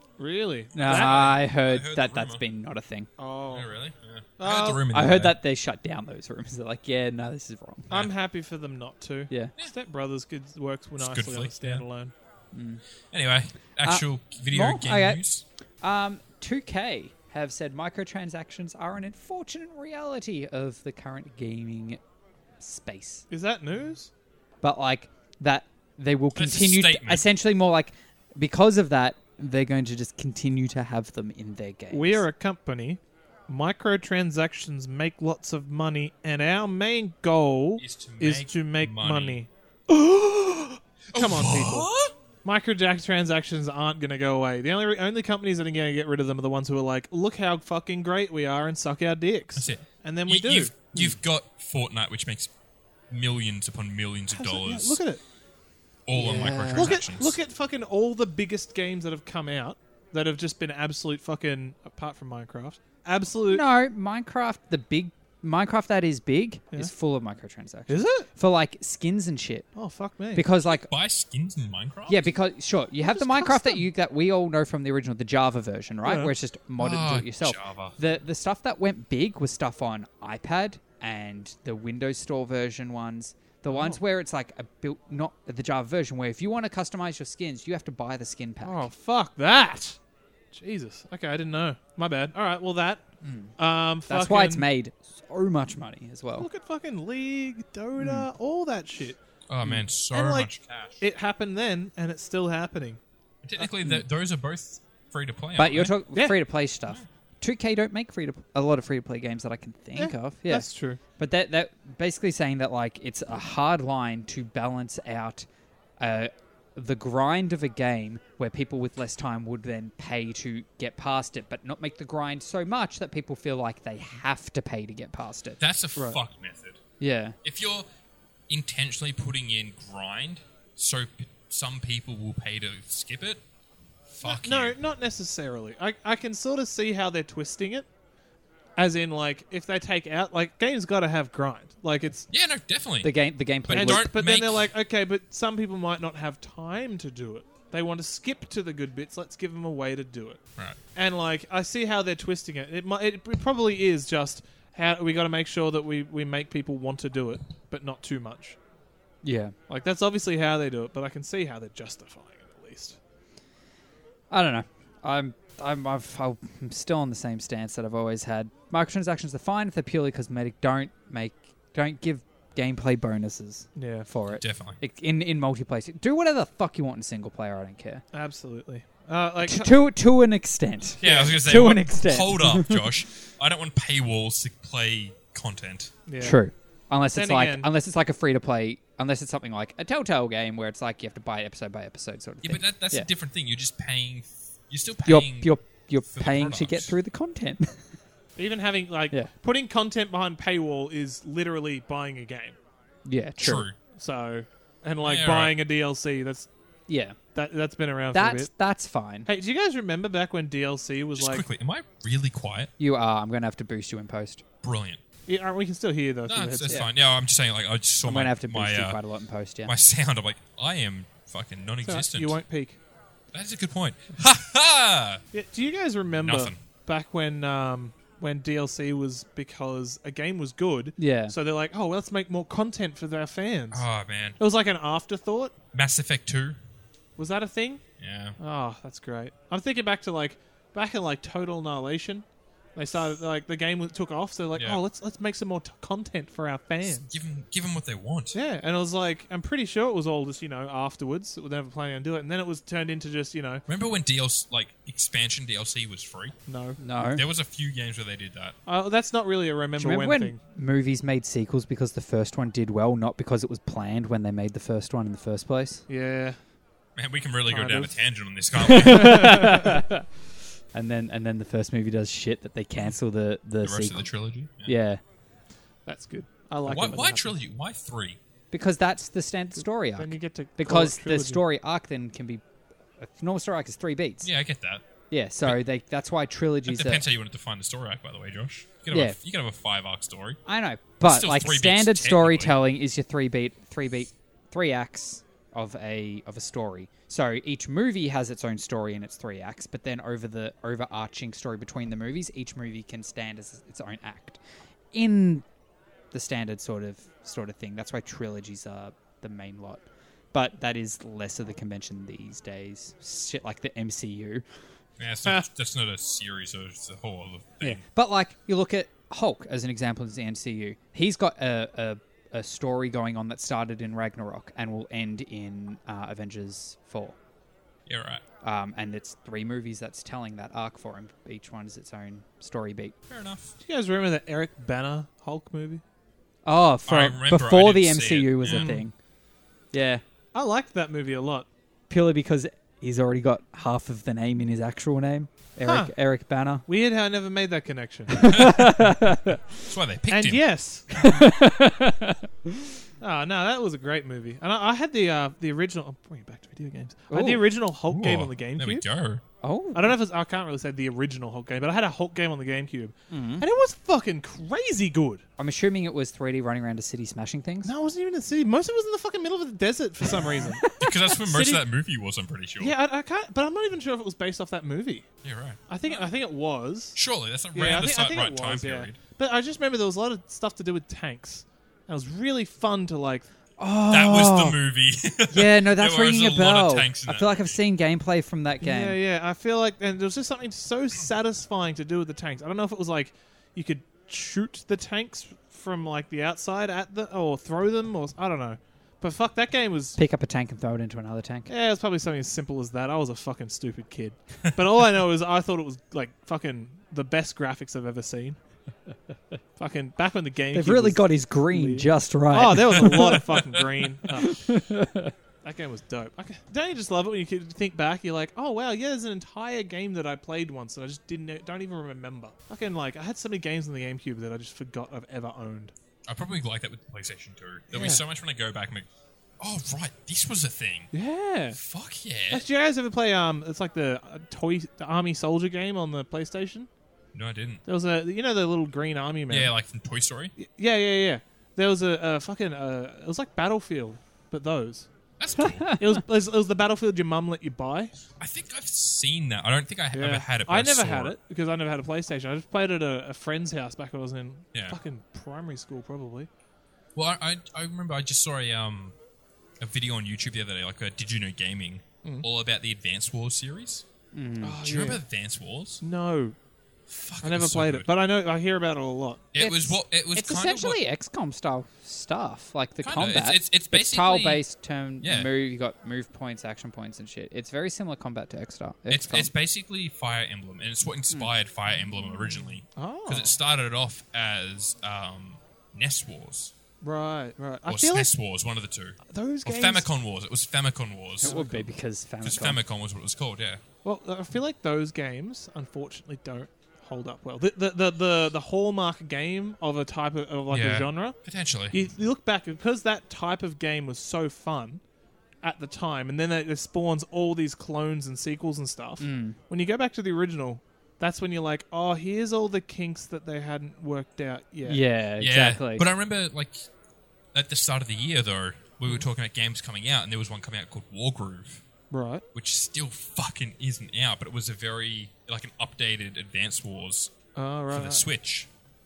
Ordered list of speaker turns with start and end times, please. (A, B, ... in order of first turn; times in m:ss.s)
0:00.2-0:01.4 A
0:00.8-0:02.4 B
0:00.8-0:03.1 C
0:03.2-0:03.7 A
0:03.5-0:05.4 B
0:04.4-0:04.9 A
0:04.9-0:07.9 C
0:07.9-0:12.1 A
0:11.0-0:11.9 B
0:12.5-0:12.8 C
0:13.1-0:15.4 B
0:13.8-0:15.2 C
0:15.8-0:22.0 C
0:22.6-0:23.2 C
0:23.3-0:24.1 A
0:24.6-0:32.2 C
0:26.4-0:27.2 B
0:31.9-0:41.9 A
0:37.8-0:39.4 B
0:41.1-0:42.1 B
0:42.4-0:50.8 A
0:49.6-0:52.5 B
0:53.1-0:55.0 B
0:54.3-0:55.2 A
0:56.1-0:57.4 B
0:56.2-1:03.6 A
0:56.2-0:57.0 C
1:03.5-1:09.7 C
1:07.9-1:08.3 A
1:09.8-1:10.4 A
1:10.4-1:10.9 C
1:10.7-1:12.3 B
1:12.1-1:28.9 C
1:13.0-1:13.8 A
1:16.0-1:16.3 A
1:16.8-1:18.0 B
1:23.7-1:24.0 A
1:28.6-1:30.0 A
1:30.5-1:33.0 A
1:33.2-1:33.5 C
1:33.6-1:34.7 A
1:34.1-1:36.5 C
1:36.4-1:39.2 A
1:38.0-1:38.3 C
1:39.5-1:41.0 B
1:40.1-1:43.0 A
1:43.4-1:45.9 B
1:45.6-1:50.7 C
1:50.0-1:51.0 A
1:51.2-1:55.5 C
1:56.0-2:05.6 C
2:05.6-2:06.8 B
2:07.0-2:07.4 C
2:07.4-2:07.9 B
2:08.5-2:13.4 B
2:14.1-2:14.8 B
2:14.2-2:17.9 A
2:18.8-2:22.3 A
2:22.3-2:23.1 B
2:23.0-2:24.1 C
2:23.7-2:24.7 B
2:23.7-2:30.4 A
2:31.0-2:38.6 A
2:39.2-2:39.6 C
2:39.7-2:43.0 A
2:44.3-2:58.0 C
2:53.8-2:54.1 A
2:54.4-2:54.8 B
2:58.1-2:59.8 A
2:59.4-3:02.8 C
3:01.0-3:01.4 A
3:01.0-3:05.9 B
3:06.1-3:06.4 A
3:06.2-3:13.1 C
3:07.1-3:07.7 A
3:12.4-3:15.6 B
3:15.0-3:17.9 C
3:16.1-3:16.9 B
3:18.4-3:22.6 A
3:23.1-3:23.7 C
3:23.4-3:23.8 B
3:23.9-3:26.5 A
3:25.0-3:25.6 B
3:26.9-3:27.2 C
3:27.4-3:28.5 A
3:28.1-3:29.3 C
3:29.3-3:31.4 A
3:31.2-3:32.7 B
3:32.8-3:34.4 C
3:34.6-3:35.0 B
3:35.3-3:36.8 A
3:36.2-3:39.0 B
3:38.0-3:39.7 C
3:39.6-3:42.4 B
3:41.8-3:42.8 A
3:43.3-3:45.2 B
3:45.3-3:53.9 A
3:46.1-3:46.6 B
3:51.0-3:51.4 C
3:53.7-3:54.4 B
3:54.4-3:55.6 A
3:55.7-3:56.6 B
3:57.2-3:57.8 A
3:58.0-3:58.4 B
3:58.4-4:07.1 A
4:04.6-4:04.8 B
4:07.0-4:08.4 B
4:08.3-4:13.6 A
4:13.7-4:16.4 B
4:16.5-4:16.8 A
4:16.8-4:17.2 C
4:17.1-4:18.6 B
4:18.7-4:20.4 A
4:19.8-4:25.8 C
4:25.9-4:26.4 A
4:27.0-4:29.6 B
4:27.5-4:28.1 A
4:28.6-4:30.0 C
4:28.9-4:29.8 A
4:30.7-4:34.1 C
4:33.6-4:34.7 B
4:34.6-4:35.0 C
4:35.9-4:37.4 A
4:36.6-4:38.2 B
4:38.5-4:42.4 C
4:40.0-4:41.4 A
4:43.0-4:44.3 C
4:44.2-4:44.8 B
4:45.1-4:47.0 C
4:46.7-4:50.4 B
4:50.5-5:04.4 C
4:51.0-4:52.6 B
5:04.9-5:05.5 C
5:06.1-5:14.4 C
5:15.0-5:17.8 B
5:17.6-5:27.2 C
5:27.9-5:28.2 B
5:28.4-5:33.0 C
5:33.1-5:33.6 B
5:33.6-5:35.8 A
5:36.4-5:38.9 C
5:36.9-5:38.8 B
5:38.4-5:38.9 A
5:39.7-5:40.0 C
5:40.3-5:41.5 A
5:41.9-5:46.6 C
5:45.6-5:46.0 A
5:46.7-5:48.4 A
5:48.2-5:49.4 C
5:48.3-5:48.9 B
5:49.7-5:50.4 B
5:50.1-5:51.0 A
5:50.9-5:52.5 C
5:53.0-5:58.8 A
5:57.1-5:57.4 C
5:57.9-5:59.2 B
5:59.4-5:59.9 C
5:59.8-6:05.2 A
6:03.1-6:03.4 C
6:05.4-6:07.7 C
6:07.6-6:11.6 A
6:10.6-6:10.9 C
6:10.7-6:12.8 B
6:12.6-6:15.1 A
6:15.2-6:15.6 B
6:15.7-6:17.0 A
6:17.0-6:19.0 B
6:17.5-6:23.3 A
6:23.6-6:24.6 C
6:23.9-6:27.6 B
6:25.3-6:29.0 C
6:28.6-6:40.0 A
6:40.0-6:41.5 C
6:41.5-6:48.4 A
6:49.6-6:54.6 A
6:50.5-6:53.2 C
6:53.3-6:53.7 B
6:54.1-6:55.1 C
6:55.4-7:05.7 A
7:06.1-7:08.9 B
7:07.7-7:08.0 A
7:09.4-7:10.9 B
7:10.9-7:11.6 A
7:11.5-7:12.4 B
7:12.3-7:16.7 A
7:17.1-7:17.6 B
7:17.7-7:19.5 A
7:19.3-7:20.3 B
7:20.4-7:24.9 A
7:25.2-7:25.8 B
7:25.4-7:25.8 C
7:25.7-7:27.9 A
7:28.2-7:31.2 B
7:29.9-7:36.3 A
7:34.5-7:34.8 B
7:37.0-7:39.0 B
7:39.6-7:43.9 B
7:44.1-7:44.6 C
7:44.4-7:45.0 A
7:44.6-7:45.8 B
7:45.8-7:46.4 A
7:46.9-7:47.9 B
7:47.2-7:49.3 A
7:49.3-7:50.8 B
7:49.4-7:59.3 C
7:52.8-7:54.4 B
7:55.0-7:55.3 B
7:58.9-8:06.5 B
8:02.8-8:03.4 A
8:06.8-8:08.1 A
8:07.7-8:11.4 B
8:09.1-8:09.9 A
8:11.2-8:12.6 C
8:11.2-8:11.7 A
8:12.2-8:13.6 B
8:13.8-8:21.2 A
8:20.5-8:21.8 B
8:21.7-8:24.8 A
8:25.4-8:34.8 A
8:29.0-8:29.4 C
8:34.6-8:35.9 C
8:35.2-8:36.7 B
8:37.3-8:41.7 B
8:41.9-8:42.2 A
8:42.3-8:47.1 B
8:47.4-8:48.1 A
8:47.7-8:48.5 B